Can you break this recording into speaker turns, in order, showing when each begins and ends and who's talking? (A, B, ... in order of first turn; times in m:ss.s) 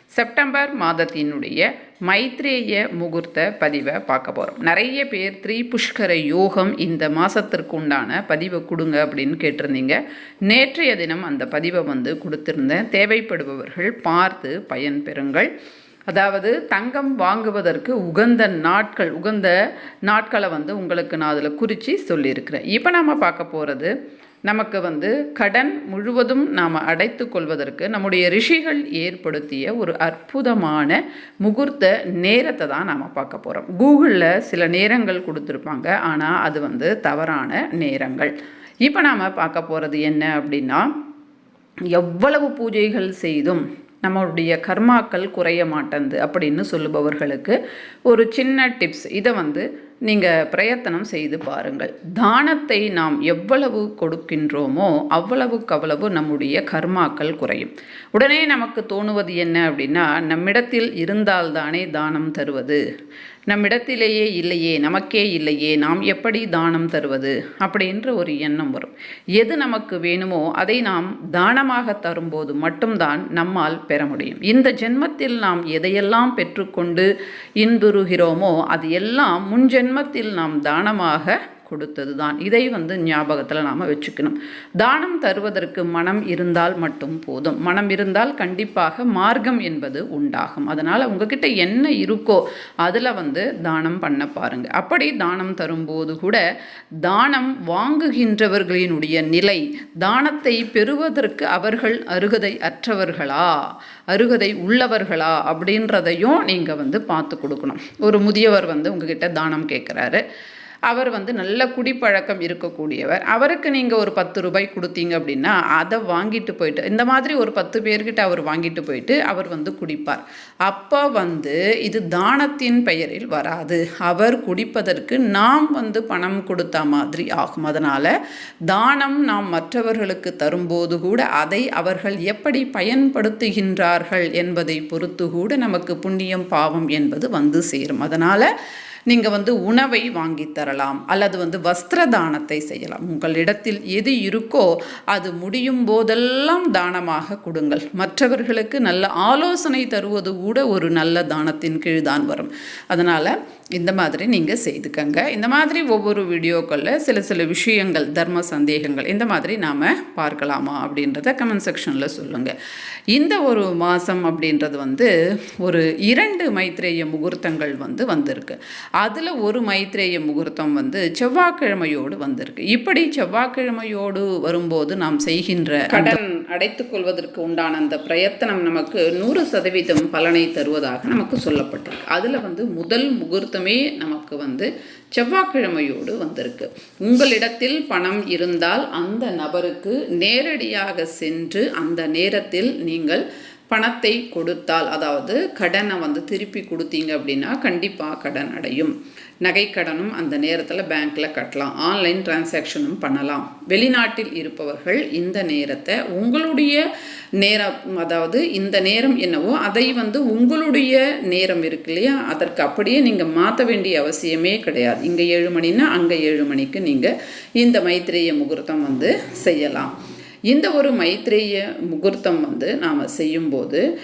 0:00.1-0:15.5 A
0:16.1-0:19.5 A
0:20.1-0:23.9 A
0:24.5-0:38.3 A
0:38.8-0:40.9 A
0:41.9-1:02.8 A
1:03.5-1:17.1 A
1:17.6-1:36.4 A
1:37.0-1:43.5 A
1:44.1-1:50.2 A
1:50.9-2:08.1 A
2:08.7-2:18.5 A
2:19.1-2:42.5 A
2:43.1-3:26.8 A
3:27.4-3:39.9 A
3:40.5-3:43.8 A